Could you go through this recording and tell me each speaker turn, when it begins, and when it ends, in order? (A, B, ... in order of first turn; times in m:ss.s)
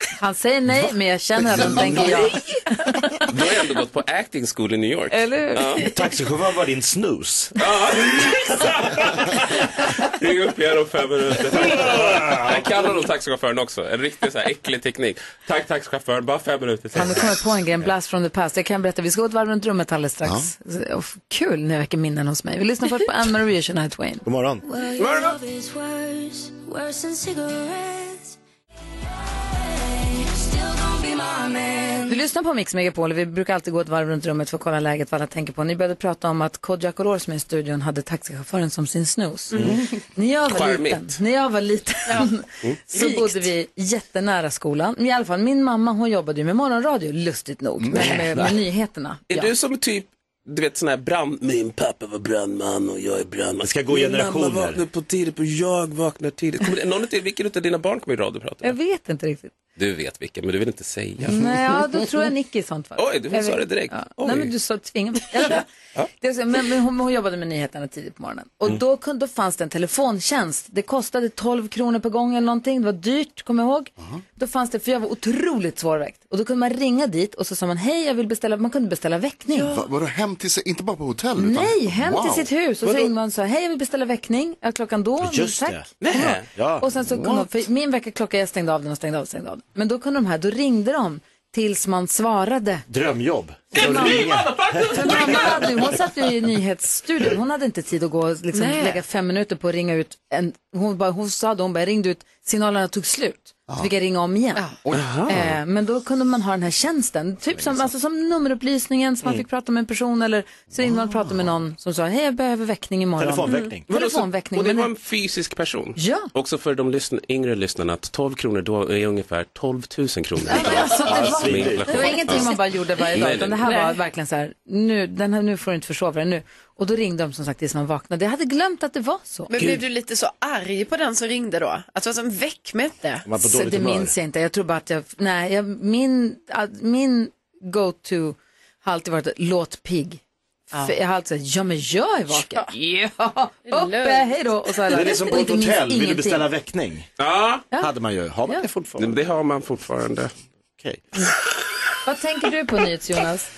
0:00.2-0:03.2 A
0:01.7-0:02.6 B
0:03.3-0:05.9 B
0:05.1-0:05.9 A
0:05.9-0:07.5 C
0:07.6-0:17.3 B
0:11.6-0:12.6 C
0:16.9-0:24.2 A
0:20.2-0:20.5 D
0:24.2-0:24.6 C
0:24.6-0:28.4 E
0:25.0-0:25.4 B
0:29.1-0:32.2 E
0:32.1-0:49.5 A
0:39.5-0:39.8 C
0:40.4-0:41.2 B
0:42.9-0:43.5 F
0:47.9-0:48.5 C
0:49.3-0:58.7 B
0:53.6-0:54.8 C
0:58.6-0:59.5 A
0:59.8-1:01.4 B
1:01.2-1:05.6 A
1:03.0-1:04.5 B
1:06.2-1:19.7 A
1:19.5-1:19.8 F
1:19.7-1:22.5 D
1:21.4-1:32.8 A
1:22.8-1:23.1 B
1:25.2-1:25.9 C
1:26.0-1:26.5 B
1:26.5-1:27.4 C
1:32.9-1:35.8 C
1:33.7-1:34.3 A
1:33.7-1:35.9 B
1:34.9-1:44.6 A
1:38.5-1:39.0 F
1:44.8-1:45.3 D
1:44.9-1:45.3 B
1:45.2-1:54.9 A
1:50.7-1:51.5 D
1:53.2-1:53.9 C
1:53.5-1:53.7 F
1:53.9-2:02.6 B
1:56.0-1:56.3 A
2:00.5-2:09.6 A
2:00.6-2:02.4 C
2:03.1-2:03.7 B
2:09.5-2:13.2 F
2:13.2-2:14.1 C
2:13.4-2:20.2 A
2:20.8-2:26.4 A
2:22.4-2:22.7 F
2:23.6-2:24.4 F
2:24.9-2:27.1 C
2:27.2-2:27.7 B
2:27.8-2:29.2 C
2:29.0-2:30.3 B
2:32.0-2:33.5 A